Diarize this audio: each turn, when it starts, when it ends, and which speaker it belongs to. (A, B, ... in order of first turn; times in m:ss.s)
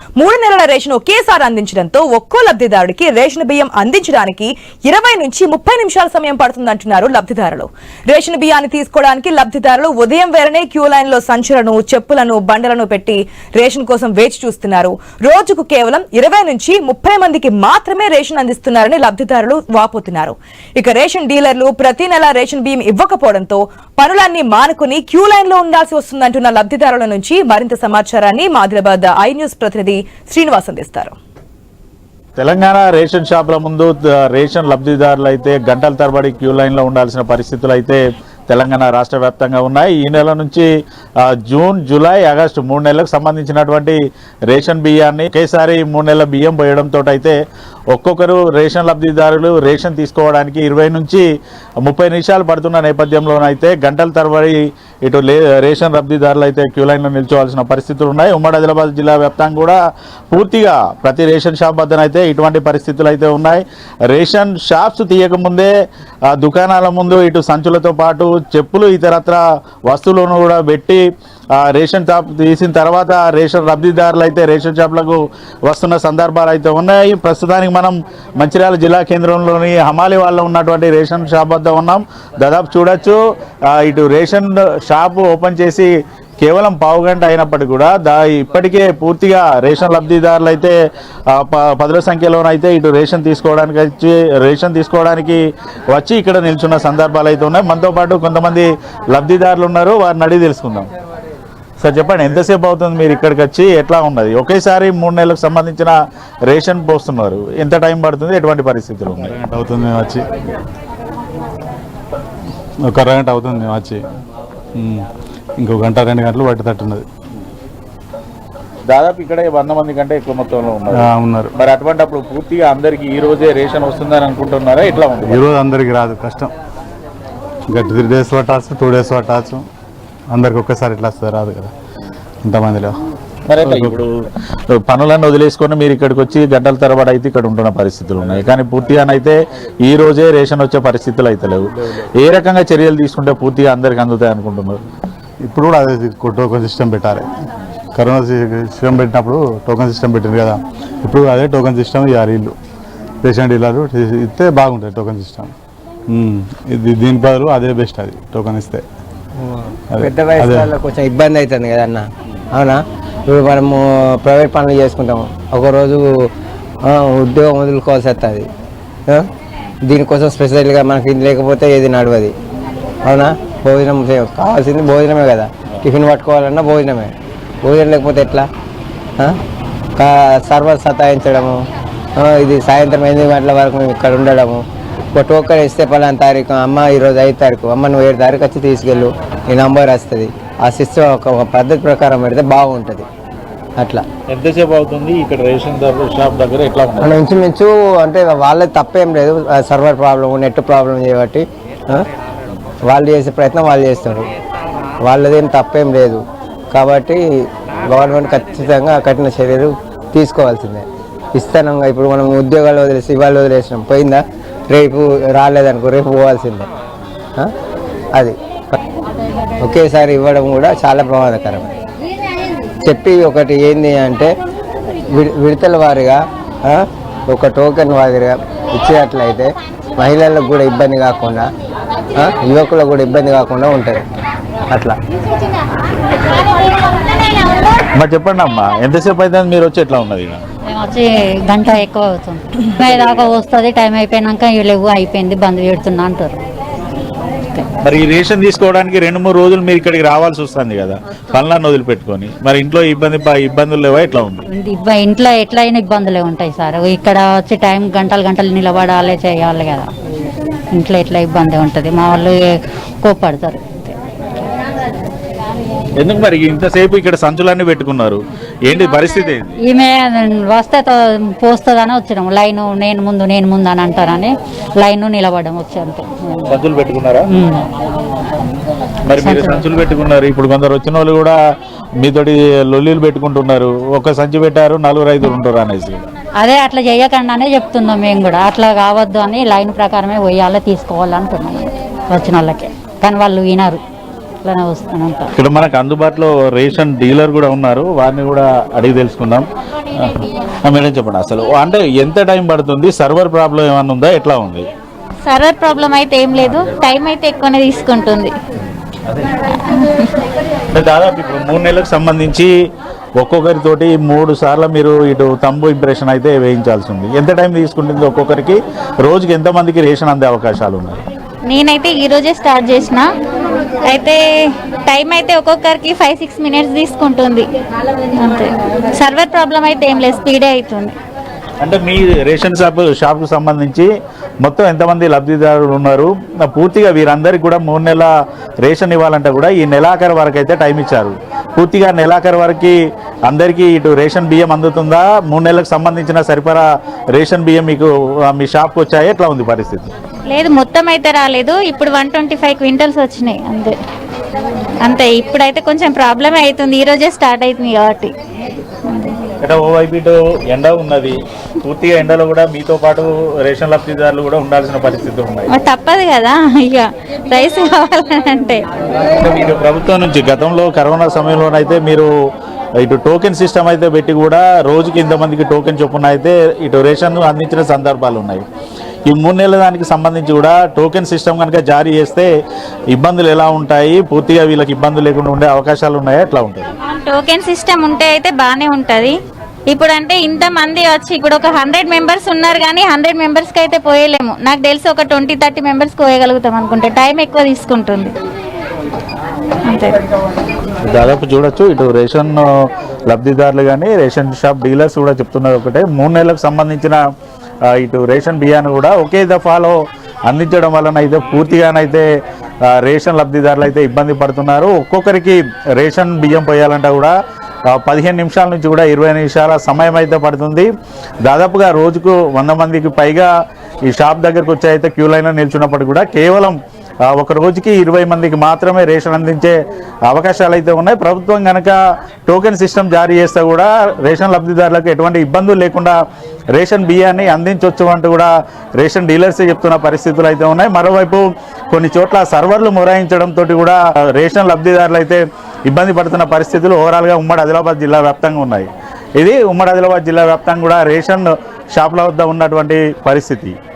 0:00.2-0:07.6 A
0:08.2-0:13.1 A
0:13.6-0:20.3 A
0:20.8-0:23.5 A
0:24.0-0:31.1 A
0:32.4-0:40.7 B
0:41.2-0:44.0 B
0:44.5-0:47.4 B
0:47.9-0:51.2 B
0:51.8-0:59.8 B
1:00.3-1:05.7 B
1:06.3-1:11.0 B
1:11.6-1:23.2 B
1:23.7-1:25.9 B
1:26.4-1:30.7 B
1:31.3-1:40.9 B
1:41.8-1:45.9 B
1:46.5-1:49.4 B
1:49.4-1:50.2 C
1:52.8-1:54.0 C
1:54.8-1:55.1 C
1:55.6-1:57.0 C
1:58.9-2:05.4 B
2:00.9-2:01.5 C
2:05.2-2:06.5 C
2:07.7-2:09.7 C
2:10.3-2:11.7 C
2:12.4-2:13.0 C
2:13.5-2:14.1 B
2:13.6-2:14.0 C
2:14.8-2:24.8 B
2:25.4-2:27.3 C
2:27.9-2:32.6 C
2:33.2-2:35.5 C
2:36.1-2:38.8 C
2:39.4-2:46.1 D
2:39.9-2:40.7 C
2:46.8-2:48.5 D
2:49.8-2:52.3 D
2:53.0-2:57.1 D
2:57.6-2:58.4 D
3:00.0-3:01.6 D
3:02.2-3:04.6 D
3:05.1-3:13.0 D
3:13.8-3:14.0 D
3:14.3-3:17.2 B
3:17.0-3:22.0 D
3:22.9-3:24.3 D
3:25.0-3:27.2 D
3:27.9-3:36.7 D
3:38.1-3:38.7 D
3:39.6-3:41.7 D
3:42.8-3:44.3 D
3:45.1-3:51.5 D
3:52.2-3:54.0 D
3:54.7-3:55.0 D
3:58.0-4:00.4 B
4:00.7-4:06.4 E
4:07.8-4:14.4 B
4:14.5-4:19.9 E
4:20.7-4:23.9 E
4:26.0-4:29.6 B
4:29.6-4:36.5 E
4:36.5-4:37.3 B
4:37.3-4:37.6 E
4:39.1-4:41.4 B
4:39.2-4:39.6 E
4:42.0-4:46.1 B
4:46.4-4:53.8 E
4:54.4-4:55.3 E
4:55.4-5:04.7 B
5:05.2-5:08.3 F
5:09.7-5:10.1 F
5:10.7-5:12.5 B
5:13.2-5:21.0 B
5:21.5-5:23.1 F
5:23.9-5:24.2 F
5:24.9-5:27.5 F
5:28.2-5:31.0 F
5:31.6-5:33.9 B
5:34.4-5:38.1 B
5:38.6-5:42.8 B
5:43.3-5:49.9 B
5:50.3-5:53.8 F
5:54.8-5:58.1 F
5:58.9-5:59.2 F
5:59.4-6:05.5 B
6:05.5-6:08.6 F
6:09.1-6:12.1 B
6:12.8-6:18.4 B
6:19.1-6:22.3 B
6:22.9-6:26.7 B
6:26.9-6:29.2 F
6:29.7-6:38.1 F
6:39.7-6:40.0 F
6:40.8-6:42.4 B
6:43.1-6:47.0 B
6:47.7-6:52.1 B
6:52.7-6:57.1 B
6:57.7-7:00.7 B
7:01.2-7:03.3 B
7:03.9-7:06.6 B
7:07.1-7:09.6 B
7:10.1-7:15.9 B
7:16.5-7:33.6 B